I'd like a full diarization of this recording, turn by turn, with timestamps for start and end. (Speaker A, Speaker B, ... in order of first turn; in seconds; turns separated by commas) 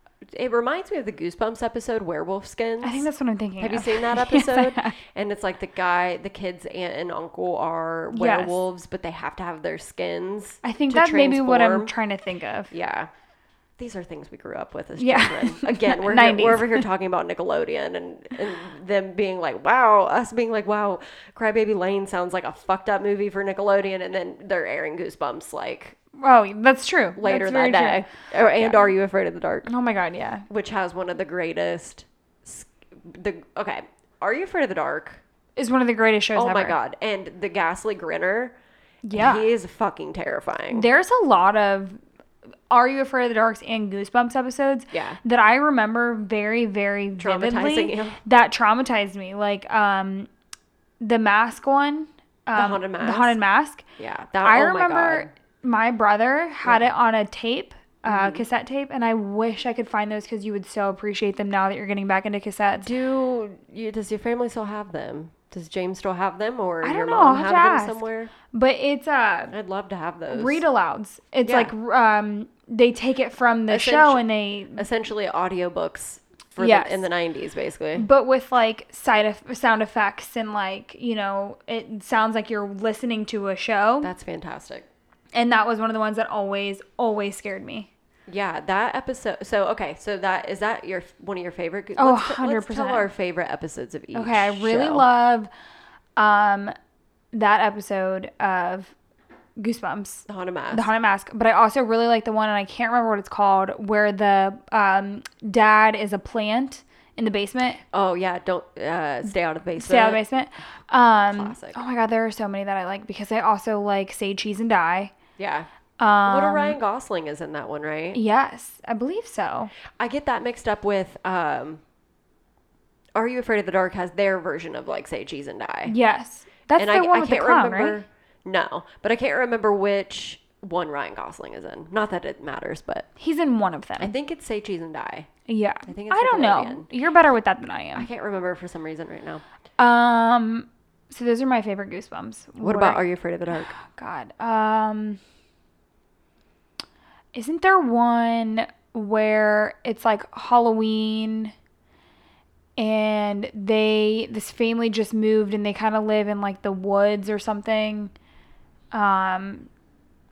Speaker A: 0.3-3.1, Speaker B: 2.8-5.0, Speaker A: 3.6-11.9, Speaker B: 8.1-8.6, Speaker B: 10.6-12.7, Speaker A: 12.7-13.1, Speaker A: 13.8-26.0, Speaker B: 15.0-16.8, Speaker B: 26.2-28.9, Speaker A: 27.1-29.7, Speaker B: 29.6-30.4, Speaker A: 30.5-35.2, Speaker B: 35.6-36.8, Speaker A: 36.3-38.6, Speaker B: 39.0-39.5, Speaker A: 39.1-40.9, Speaker B: 40.7-42.0, Speaker B: 42.7-50.3, Speaker A: 44.9-45.2, Speaker A: 47.2-48.2, Speaker B: 51.0-53.8, Speaker A: 52.5-53.4, Speaker A: 54.0-55.3, Speaker B: 54.4-62.9, Speaker A: 56.6-56.9, Speaker A: 58.1-58.4, Speaker A: 62.8-68.3, Speaker B: 66.8-69.5, Speaker A: 69.5-70.6, Speaker B: 70.3-74.8, Speaker A: 71.4-71.7, Speaker A: 73.7-74.2, Speaker A: 74.8-78.0, Speaker B: 76.6-77.0, Speaker B: 78.0-84.1, Speaker A: 84.0-84.9, Speaker B: 85.3-87.9, Speaker A: 88.3-95.0, Speaker B: 92.0-93.1, Speaker B: 94.1-95.5, Speaker B: 96.2-96.7, Speaker B: 97.3-98.9, Speaker B: 99.6-107.8, Speaker A: 100.3-100.9, Speaker A: 107.9-110.2, Speaker B: 109.8-115.1, Speaker A: 111.3-111.8, Speaker A: 115.4-115.7, Speaker B: 116.0-116.8, Speaker A: 116.2-118.2, Speaker B: 118.1-119.7, Speaker A: 120.0-121.8, Speaker A: 123.2-125.9, Speaker B: 125.9-128.0, Speaker A: 126.8-133.1, Speaker B: 133.2-134.1, Speaker A: 134.0-135.3, Speaker B: 135.5-138.1, Speaker A: 135.9-136.9, Speaker A: 137.9-139.4, Speaker B: 139.8-143.0, Speaker A: 142.6-143.7, Speaker B: 143.6-145.2, Speaker B: 147.3-151.5, Speaker B: 152.8-158.1, Speaker B: 158.9-159.7